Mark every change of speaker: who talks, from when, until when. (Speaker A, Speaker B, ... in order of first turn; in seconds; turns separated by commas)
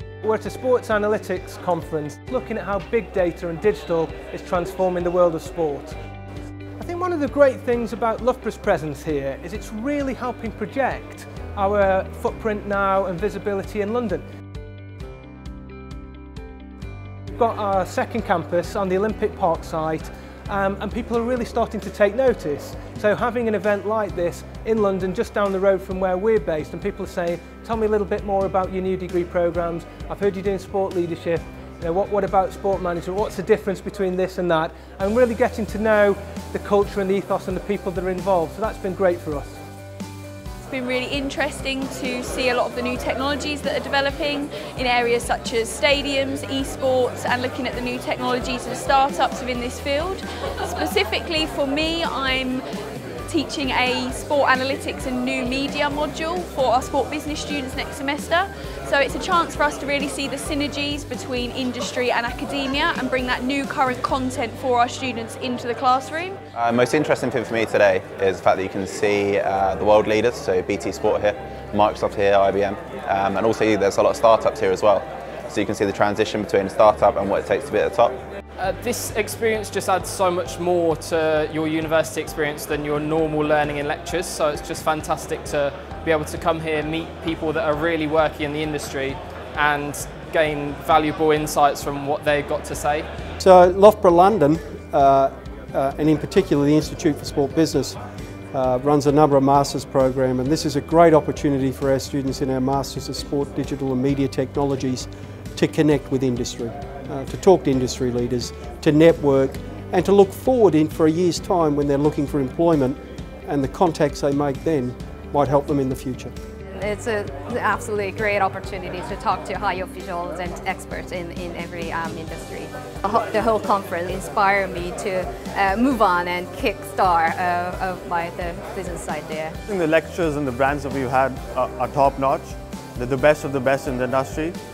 Speaker A: 0.2-6.0, Speaker A: 6.8-14.2, Speaker A: 17.3-39.6, Speaker B: 40.7-52.6, Speaker B: 53.3-66.4, Speaker C: 66.5-78.1, Speaker D: 78.6-93.1, Speaker E: 93.4-98.0, Speaker E: 98.5-116.3, Speaker F: 116.7-129.5, Speaker G: 129.7-134.6